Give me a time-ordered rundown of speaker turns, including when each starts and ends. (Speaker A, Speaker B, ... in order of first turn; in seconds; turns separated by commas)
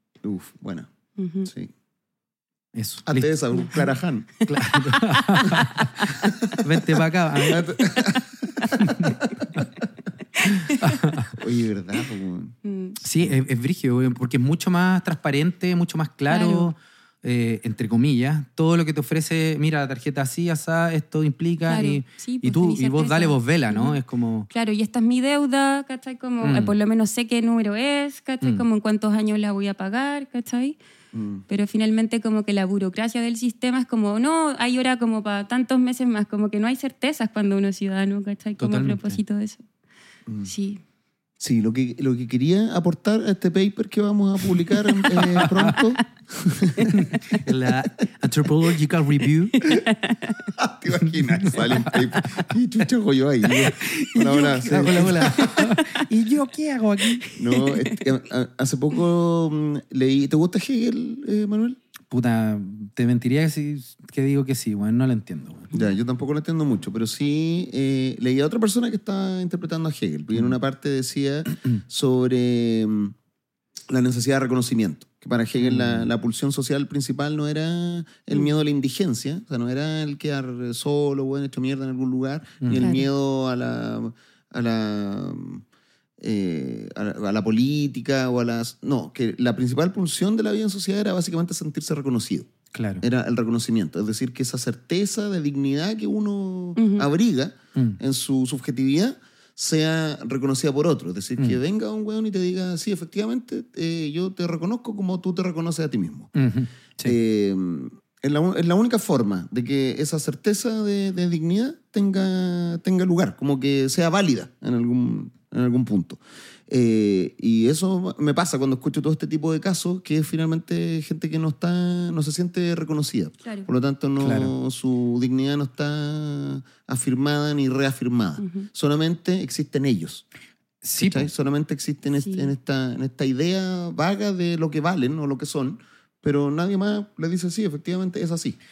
Speaker A: 0.2-0.9, Speaker B: 1.2-1.5, Speaker A: 1.5-1.7, Speaker C: 2.7-3.3, Speaker A: 3.1-4.3, Speaker B: 4.4-6.6, Speaker C: 4.5-7.7, Speaker A: 7.5-9.5, Speaker B: 7.5-9.1, Speaker C: 8.8-9.7, Speaker B: 10.4-11.0, Speaker C: 10.5-11.4, Speaker A: 11.4-12.6, Speaker B: 12.6-13.0, Speaker C: 13.0-24.5, Speaker B: 16.3-16.7, Speaker B: 21.6-24.0, Speaker B: 24.5-30.8, Speaker C: 26.4-26.7, Speaker A: 31.1-31.4, Speaker B: 31.5-39.6, Speaker C: 38.6-39.2, Speaker B: 40.5-40.8, Speaker A: 41.4-47.1, Speaker C: 45.1-45.8, Speaker B: 46.8-47.4, Speaker C: 47.0-49.7, Speaker B: 49.6-50.5, Speaker A: 50.6-55.5, Speaker C: 51.1-52.5, Speaker C: 53.5-57.2, Speaker B: 55.2-56.0, Speaker B: 57.2-58.1, Speaker A: 57.4-61.8, Speaker C: 62.1-65.7, Speaker A: 65.7-73.2, Speaker A: 73.9-85.6, Speaker C: 75.6-76.1, Speaker C: 82.6-82.9, Speaker B: 82.7-83.1, Speaker A: 86.2-92.5, Speaker C: 92.7-93.0, Speaker A: 93.0-106.3, Speaker B: 96.8-97.1, Speaker C: 106.3-107.2, Speaker A: 107.0-130.3, Speaker C: 124.2-124.5, Speaker B: 128.4-128.7, Speaker C: 130.8-131.3, Speaker A: 131.0-138.6, Speaker B: 132.2-132.5